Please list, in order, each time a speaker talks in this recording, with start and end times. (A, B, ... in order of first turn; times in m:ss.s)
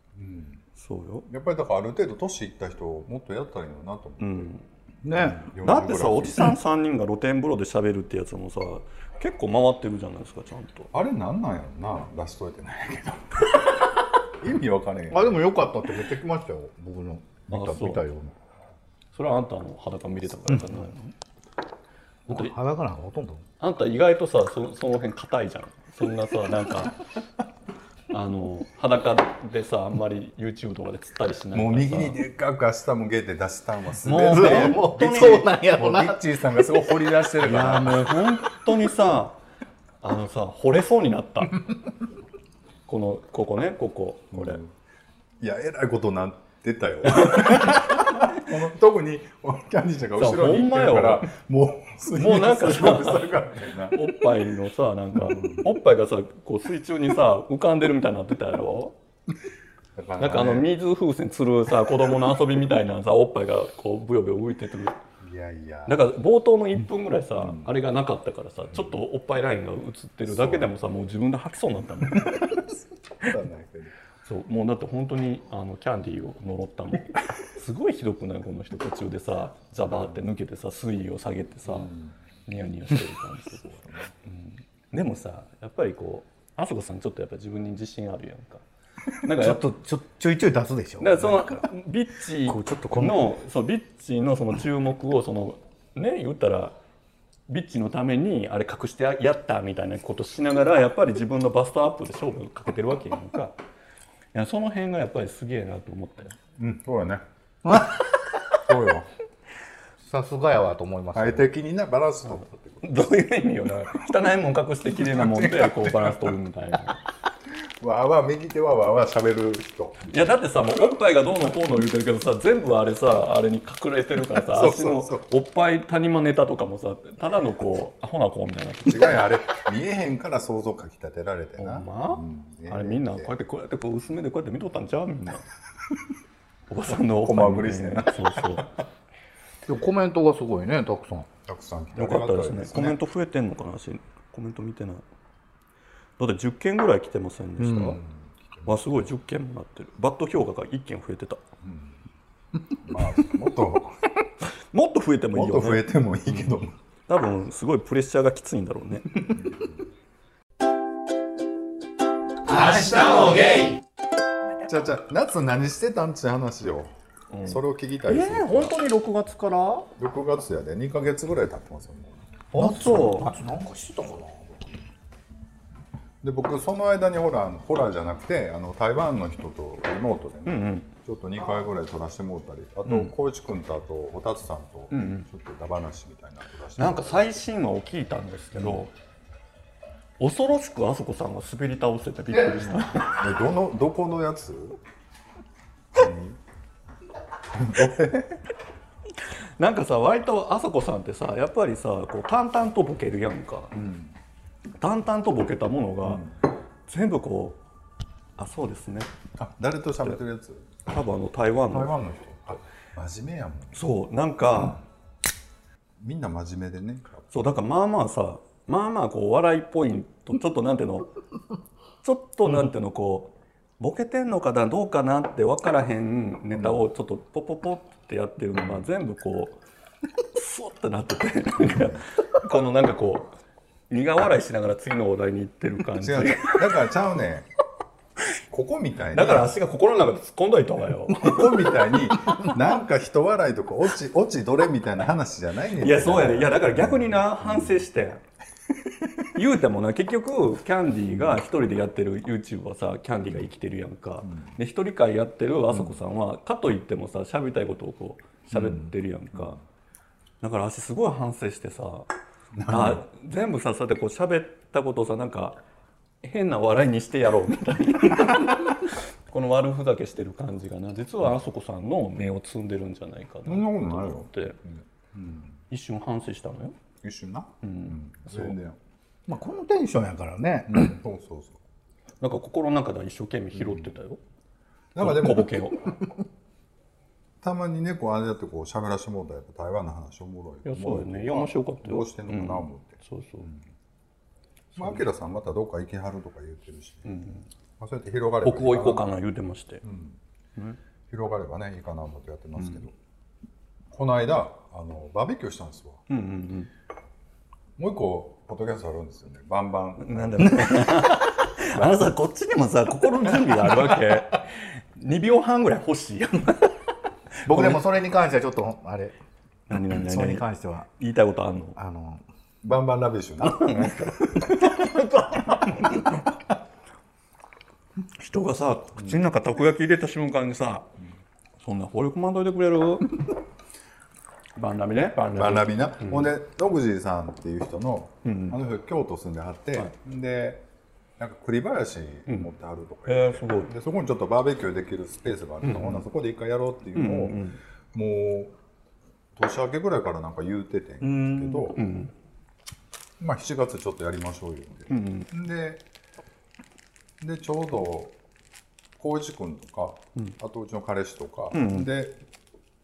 0:00.1-0:00.6 A
0:00.8-0:01.2 B
0:01.3-0:04.5 A
0:04.2-0:04.6 B
0:05.0-0:05.4 C
0:05.1-0:06.6 A
0:05.6-0:10.9 B
0:10.9-0:13.7 A
0:14.2-0:15.4 A
0:15.1-0:18.4 C
0:17.5-0:18.0 B
0:19.1-0:21.1 B
0:22.3-0:23.4 C
0:22.3-0:22.5 B
0:23.6-0:27.0 B
0:28.1-0:32.2 B
0:31.5-0:38.3 A
0:34.0-0:35.5 B
0:34.2-0:36.4 C
0:37.4-0:39.4 B
0:40.0-0:41.6 B
0:42.9-0:44.6 B
0:44.3-0:44.7 A
0:45.4-0:54.2 A
0:47.1-0:48.3 B
0:50.2-0:51.3 B
0:52.1-0:59.0 B
0:55.2-0:55.7 A
1:00.0-1:00.7 A
1:00.2-1:05.0 B
1:05.2-1:06.0 A
1:05.9-1:12.6 B
1:07.4-1:07.7 A
1:08.7-1:09.0 A
1:10.3-1:10.7 A
1:12.2-1:13.9 A
1:14.2-1:21.9 B
1:19.9-1:20.1 A
1:21.7-1:22.1 A
1:22.4-1:28.6 B
1:23.8-1:24.1 A
1:29.2-1:29.7 B
1:29.3-1:31.7 C
1:31.0-1:36.8 B
1:32.4-1:33.3 C
1:37.5-1:43.6 B
1:44.3-1:46.3 B
1:46.6-1:47.2 A
1:47.6-1:48.0 C
1:48.6-1:49.1 A
1:50.0-1:51.5 C
1:51.1-1:53.1 A
1:52.8-1:57.0 B
1:55.0-1:56.3 A
1:57.8-2:00.2 A
2:00.1-2:09.2 B
2:04.4-2:05.2 A
2:08.8-2:13.3 A
2:11.6-2:15.5 B
2:16.7-2:18.8 B
2:17.0-2:18.7 A
2:19.6-2:21.3 C
2:21.4-2:23.0 A
2:22.0-2:25.0 B
2:26.2-2:28.0 B
2:27.6-2:28.0 C
2:27.8-2:28.9 A
2:28.6-2:31.4 B
2:31.6-2:32.0 A
2:32.8-2:34.0 A
2:34.7-2:36.6 B
2:35.3-2:36.7 A
2:37.1-2:39.3 B
2:39.3-2:39.8 A
2:42.9-2:43.3 A
2:44.6-2:48.7 A
2:47.3-2:49.9 B
2:50.0-2:52.2 A
2:52.5-2:53.3 B
2:52.5-2:54.6 C
2:56.2-3:07.3 A
3:00.4-3:00.9 B
3:02.8-3:03.1 B
3:04.9-3:05.3 B
3:06.8-3:08.9 B
3:08.5-3:08.8 A
3:10.2-3:13.2 B
3:12.9-3:14.8 A
3:15.9-3:16.4 A
3:17.5-3:18.4 A
3:19.6-3:23.7 B
3:23.7-3:24.1 A
3:24.8-3:26.2 B
3:26.0-3:26.3 A
3:26.9-3:27.6 B
3:28.4-3:29.1 B
3:29.4-3:30.7 A
3:30.9-3:31.9 B
3:31.7-3:33.9 A
3:33.7-3:34.8 B
3:36.0-3:37.4 A
3:37.3-3:41.1 B
3:42.0-3:49.6 B
3:46.5-3:46.8 A
3:48.6-3:48.8 A
3:50.2-3:53.3 B
3:51.6-3:52.0 A
3:53.9-3:56.7 B
3:56.0-3:57.5 A
3:58.5-3:59.5 A
3:59.1-4:01.8 B
4:01.1-4:07.8 A
4:05.8-4:08.2 B
4:09.3-4:19.6 B
4:18.5-4:19.6 A
4:20.4-4:22.1 B
4:22.5-4:23.0 A
4:22.6-4:25.6 B
4:26.2-4:34.6 B
4:33.4-4:35.6 A
4:35.7-4:36.8 B
4:37.0-4:38.8 A
4:37.6-4:38.6 B
4:39.3-4:40.8 C
4:40.7-4:41.6 A
4:42.2-4:44.2 B
4:43.5-4:43.9 A
4:44.9-4:45.7 A
4:45.0-4:46.0 B
4:47.4-4:53.6 A
4:50.6-4:53.5 B
4:54.7-4:55.0 B
4:54.8-4:57.1 A
4:57.0-4:57.4 B
4:57.8-4:59.1 A
4:58.4-4:59.8 B
4:59.8-5:00.2 A
5:01.1-5:02.9 A
5:03.9-5:06.0 A
5:06.1-5:06.7 B
5:07.8-5:11.0 A
5:10.0-5:16.8 B
5:17.4-5:19.2 C
5:17.5-5:17.8 B
5:19.7-5:20.4 B
5:20.0-5:20.9 C
5:21.0-5:21.8 B
5:21.8-5:22.2 C
5:22.6-5:24.5 A
5:23.4-5:26.3 B
5:28.1-5:30.9 B
5:31.6-5:33.2 B
5:34.6-5:36.3 B
5:35.3-5:40.6 A
5:38.2-5:38.6 B
5:41.2-5:48.5 A
5:43.0-5:43.7 B
5:45.6-5:46.0 B
5:46.9-5:47.6 B
5:49.3-5:51.8 A
5:51.0-5:51.7 C
5:51.7-5:52.1 B
5:53.2-5:55.8 A
5:54.9-5:55.3 B
5:57.2-5:58.1 A
5:59.0-6:02.2 A
6:01.5-6:01.9 B